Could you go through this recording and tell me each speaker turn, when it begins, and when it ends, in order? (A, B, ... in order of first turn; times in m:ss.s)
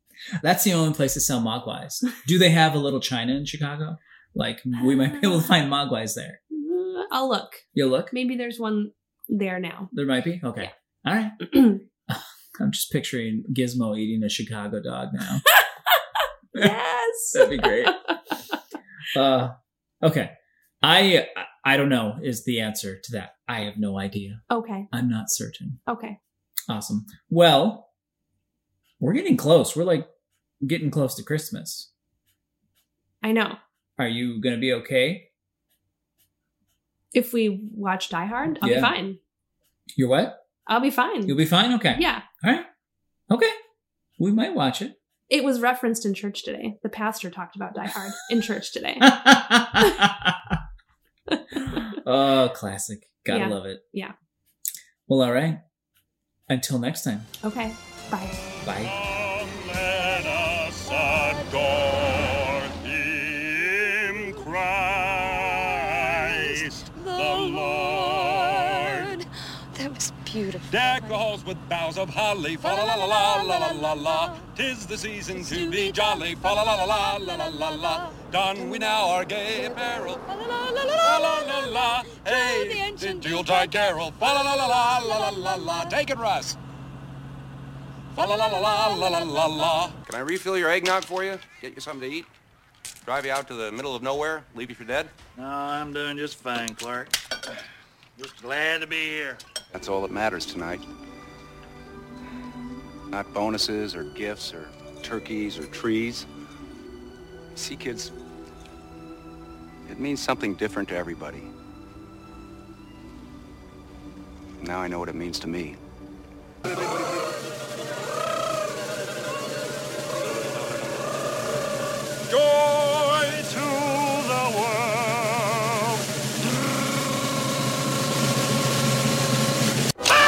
0:00.4-0:06.4 A
0:04.8-0:05.4 B
0:06.5-0:09.9 B
0:07.7-0:08.1 A
0:09.9-0:15.4 A
0:15.5-0:18.0 B
0:17.3-0:18.0 A
0:19.1-0:25.8 A
0:24.5-0:24.9 B
0:25.9-0:26.2 B
0:26.7-0:27.9 A
0:29.0-0:30.1 A
0:30.6-0:31.9 A
0:33.2-0:33.6 B
0:34.0-0:35.3 A
0:37.1-0:39.2 B
0:38.6-0:38.9 A
0:40.0-0:40.4 A
0:40.7-0:41.4 B
0:41.3-0:42.7 A
0:41.9-0:42.2 B
0:43.3-0:43.6 A
0:44.2-0:45.0 A
0:45.3-0:49.2 B
0:49.0-0:50.6 A
0:51.3-0:52.0 B
0:51.7-0:53.8 A
0:53.3-0:54.1 B
0:55.1-0:55.6 A
0:56.5-0:57.3 A
0:57.4-0:58.4 B
0:58.6-0:58.9 A
0:58.8-1:09.2 C
1:01.0-1:01.4 D
1:06.2-1:11.2 D
1:10.7-1:26.6 C
1:12.6-1:14.4 D
1:15.3-1:19.0 D
1:19.7-1:26.0 D
1:28.1-1:30.0 C
1:28.2-1:29.7 D
1:30.0-1:32.3 E
1:33.0-1:35.1 E
1:35.4-1:37.2 F
1:38.2-1:39.4 F
1:39.7-1:40.8 E
1:43.1-1:46.3 E
1:47.6-1:48.1 E
1:49.9-1:51.5 E
1:54.6-1:55.8 E
2:02.3-2:06.0 C